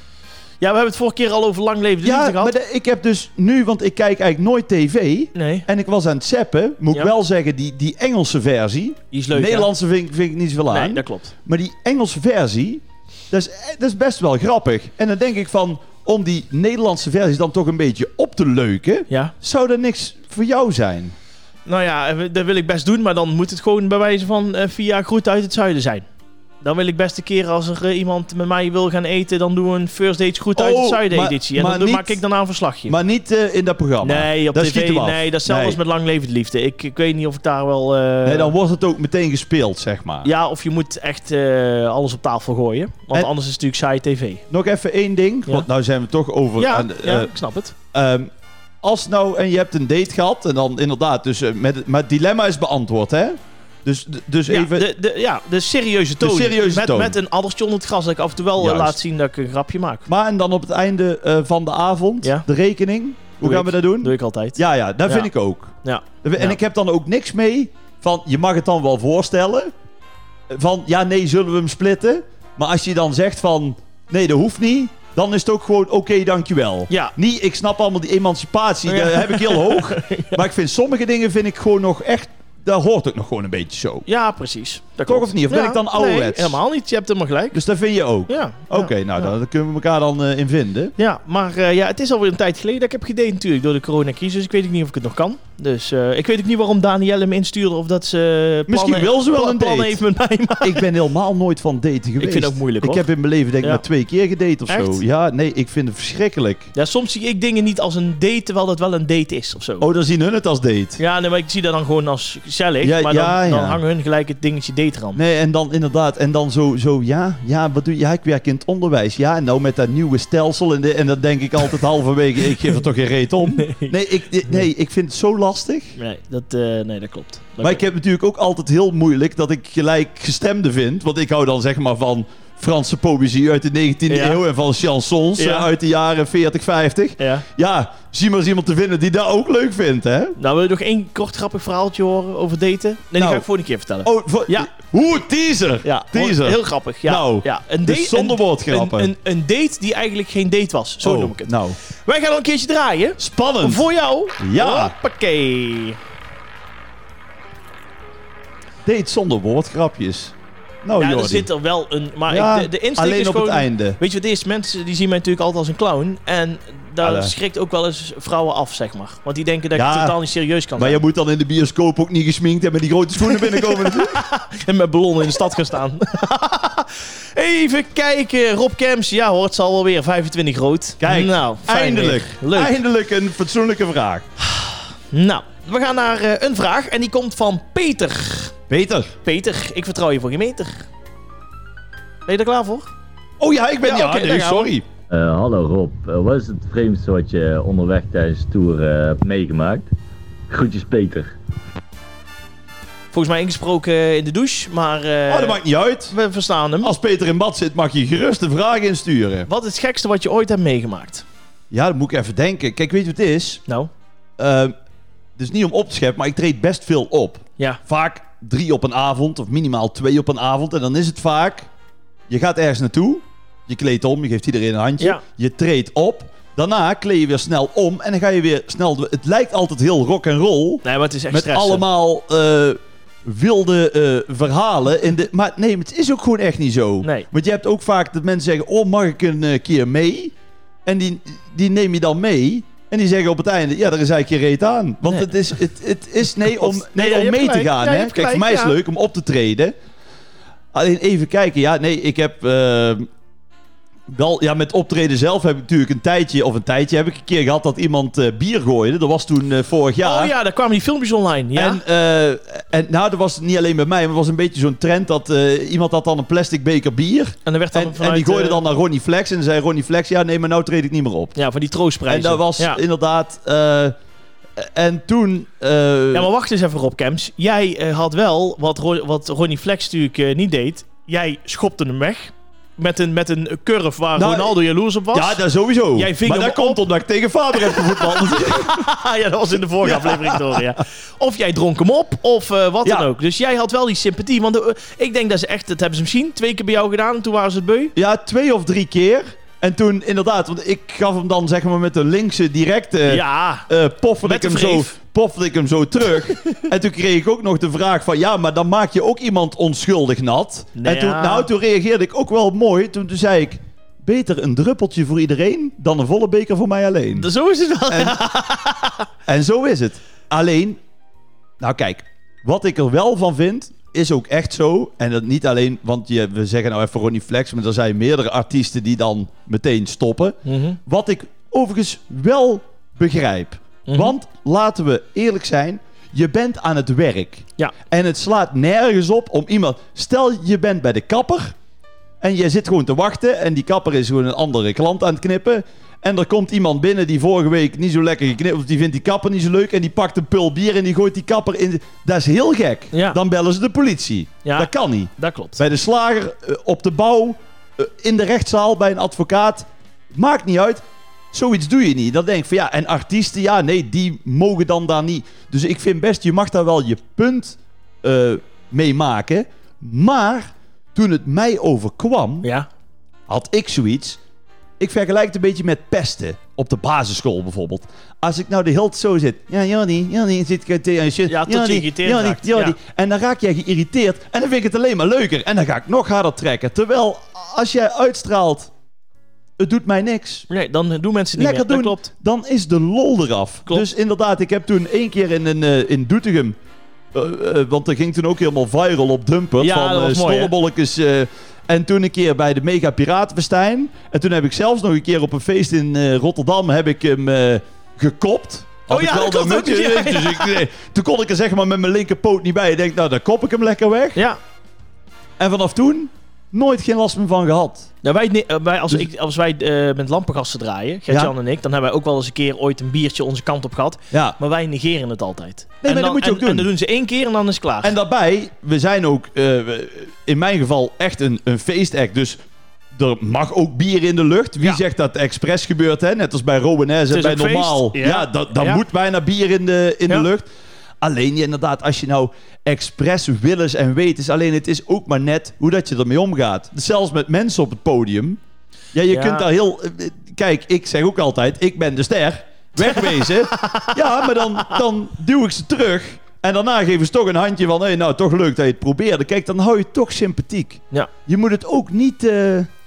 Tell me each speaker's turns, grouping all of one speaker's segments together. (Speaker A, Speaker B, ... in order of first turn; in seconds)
Speaker A: 0.6-2.5, 5.3-5.7, 9.1-9.7, 10.7-11.3, 19.1-19.3, 21.6-26.1, 26.6-33.0, 34.0-38.5, 40.2-44.4, 46.6-47.7, 54.5-60.1, 62.2-62.5, 63.4-65.3, 65.8-66.6, 76.9-77.1, 78.9-80.4, 84.1-87.6, 88.3-89.2, 91.0-100.9, 102.2-103.0, 104.7-105.0, 106.7-109.9, 111.0-115.2, 123.6-124.0, 126.0-127.9, 134.1-134.4, 135.4-135.7, 137.2-137.4, 140.4-144.7, 145.8-151.5, 152.1-156.0, 160.9-171.0, 173.2-182.7, 184.5-188.5, 189.2-190.8, 192.2-192.9, 193.8-194.7, 203.1-206.9, 209.5-211.2, 230.8-231.8, 237.0-237.3, 246.3-248.8, 260.0-261.8, 267.4-268.6, 271.3-272.8, 276.1-285.4, 285.9-286.8, 287.7-297.9, 303.1-303.7, 304.2-304.9, 306.2-306.6, 310.8-311.5, 317.1-319.1, 330.4-330.8, 333.9-334.1, 352.9-353.2, 354.4-355.6, 372.4-372.7, 381.3-382.8, 390.5-392.1, 399.6-400.5, 408.9-410.6, 418.0-427.9, 437.1-438.8, 449.1-449.5, 452.8-454.8
Speaker B: 2.0-21.1, 30.6-32.2, 32.9-35.8, 38.2-40.3, 44.5-47.3, 47.9-48.3, 48.8-54.9, 56.2-57.1, 58.6-59.0, 60.1-69.7, 70.5-84.0, 85.0-86.6, 87.5-90.9, 98.7-100.0, 100.6-106.7, 109.8-111.0, 112.8-113.8, 115.1-126.0, 127.6-140.3, 143.2-143.4, 144.0-149.1, 151.0-151.8, 153.2-153.8, 154.4-154.9, 158.8-161.5, 162.3-164.0, 167.0-167.3, 169.7-170.2, 170.8-174.2, 181.0-184.3, 188.7-189.1, 193.4-194.8, 205.3-206.1, 206.8-209.5, 211.7-213.6, 214.4-214.7, 215.4-221.7, 222.3-240.3, 240.8-249.8, 250.7-253.1, 254.1-260.3, 261.5-271.4, 272.1-273.9, 274.6-276.3, 284.1-284.6, 285.1-288.8, 289.8-290.8, 297.9-317.3, 317.9-318.2, 319.2-320.8, 321.6-341.5, 342.2-372.5, 373.3-374.2, 374.8-388.7, 389.6-390.5, 391.4-396.6, 397.1-414.2, 415.4-417.9, 421.1-421.3, 424.1-424.4, 425.8-426.7, 427.8-432.4, 432.9-440.5, 441.0-448.4, 448.9-462.7
Speaker C: 195.1-199.9, 200.5-201.3